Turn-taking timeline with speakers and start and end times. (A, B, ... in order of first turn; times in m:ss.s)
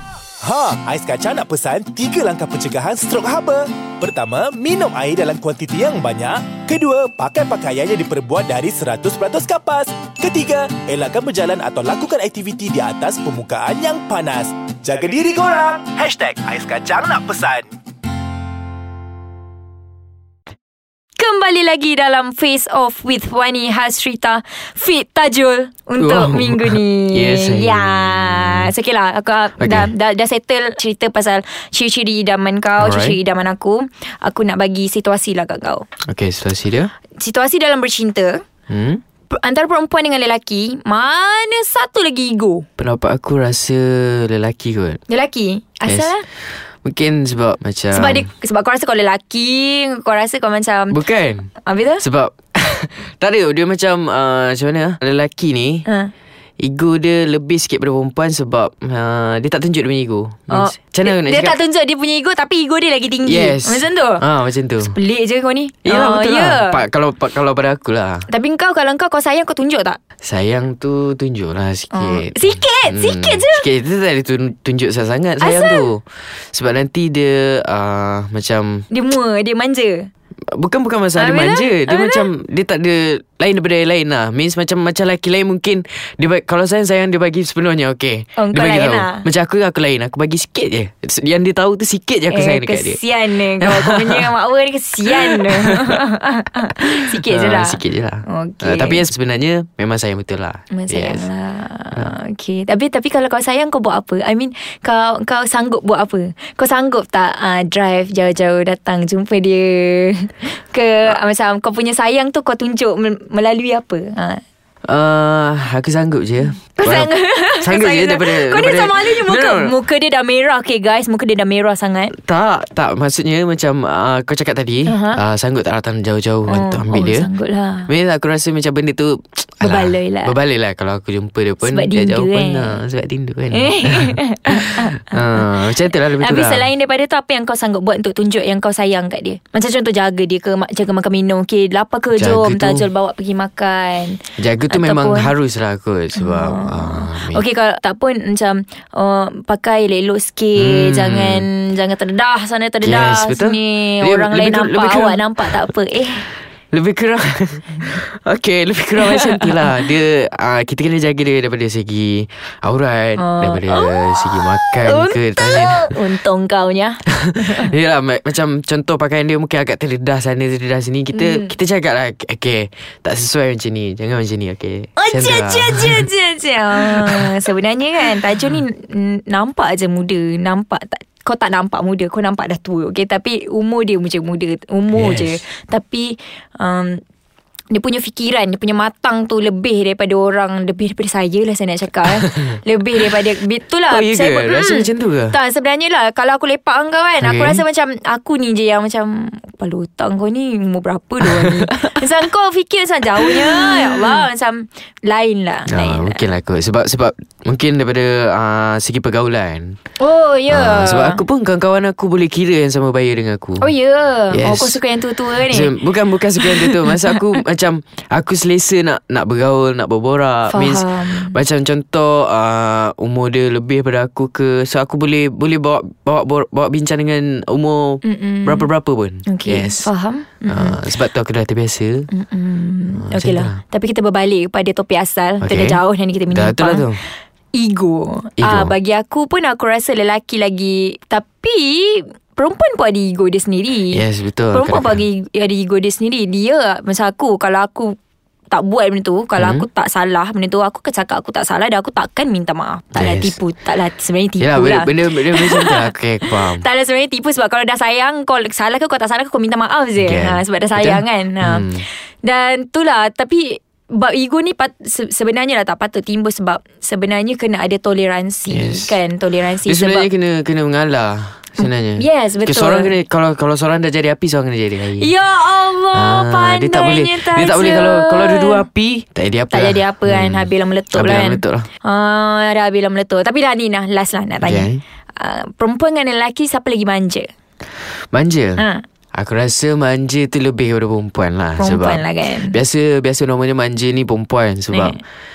0:00.4-0:17.7 A
0:21.2-0:35.8 B
0:26.0-0:28.7 C
0:29.6-0:29.9 C
0:32.8-0:33.2 C
0:36.1-0:36.9 C
0:37.2-0:38.4 B
0:38.7-0:39.0 C
0:39.3-0:42.7 B
0:42.8-0:45.0 C
0:45.1-0:46.2 B
0:45.8-0:46.1 C
0:46.8-0:48.3 C
0:47.9-0:51.0 B
0:50.9-0:55.8 C
0:51.6-0:52.0 B
0:55.8-0:56.1 B
0:56.6-1:01.6 C
1:00.5-1:04.2 B
1:03.2-1:05.0 C
1:04.8-1:06.8 B
1:05.8-1:08.2 C
1:08.3-1:10.0 B
1:10.2-1:18.8 C
1:11.9-1:13.6 B
1:15.4-1:15.9 B
1:18.9-1:20.1 B
1:20.5-1:34.3 C
1:21.1-1:22.3 B
1:28.4-1:29.2 B
1:32.3-1:39.0 B
1:35.0-1:36.0 C
1:36.8-1:41.3 C
1:40.7-1:54.4 B
1:54.8-1:59.8 C
1:56.6-2:02.1 B
2:02.1-2:07.3 C
2:04.9-2:05.2 B
2:06.5-2:07.9 B
2:07.9-2:16.7 C
2:09.6-2:10.3 B
2:11.6-2:12.8 B
2:13.5-2:15.5 B
2:16.2-2:25.3 B
2:22.1-2:22.9 C
2:24.4-2:27.4 C
2:26.1-2:36.3 B
2:30.5-2:31.5 C
2:32.8-2:35.7 C
2:36.7-2:46.0 C
2:39.0-2:39.7 B
2:43.2-2:47.7 B
2:47.1-2:56.1 C
2:51.1-2:51.5 B
2:55.0-3:07.0 B
2:56.8-2:57.5 C
3:04.9-3:05.4 C
3:07.7-3:26.3 B
3:12.1-3:12.5 C
3:13.9-3:15.4 C
3:17.2-3:17.6 C
3:21.2-3:22.0 C
3:23.2-3:24.2 C
3:25.7-3:29.8 C
3:30.0-3:31.2 B
3:30.5-3:33.7 C
3:33.6-3:35.8 B
3:34.3-3:34.8 C
3:35.3-3:49.9 C
3:36.4-3:37.2 B
3:40.5-3:41.4 B
3:48.0-3:48.7 B
3:49.2-3:50.8 B
3:50.5-3:52.1 C
3:52.1-3:57.0 B
3:52.9-3:53.6 C
3:55.4-3:57.0 C
3:57.5-4:07.9 B
3:58.4-3:58.7 C
4:03.9-4:05.0 C
4:08.5-4:30.1 B
4:09.4-4:09.7 C
4:12.9-4:13.4 C
4:14.4-4:16.6 C
4:20.0-4:21.8 C
4:28.5-4:29.0 C
4:29.6-4:35.1 C
4:31.6-4:32.9 B
4:35.0-4:38.6 B
4:35.9-4:41.7 C
4:39.5-4:47.3 B
4:44.4-4:44.8 C
4:48.1-4:55.0 C
4:48.6-4:48.8 B
4:51.6-4:52.6 B
4:54.7-4:55.0 B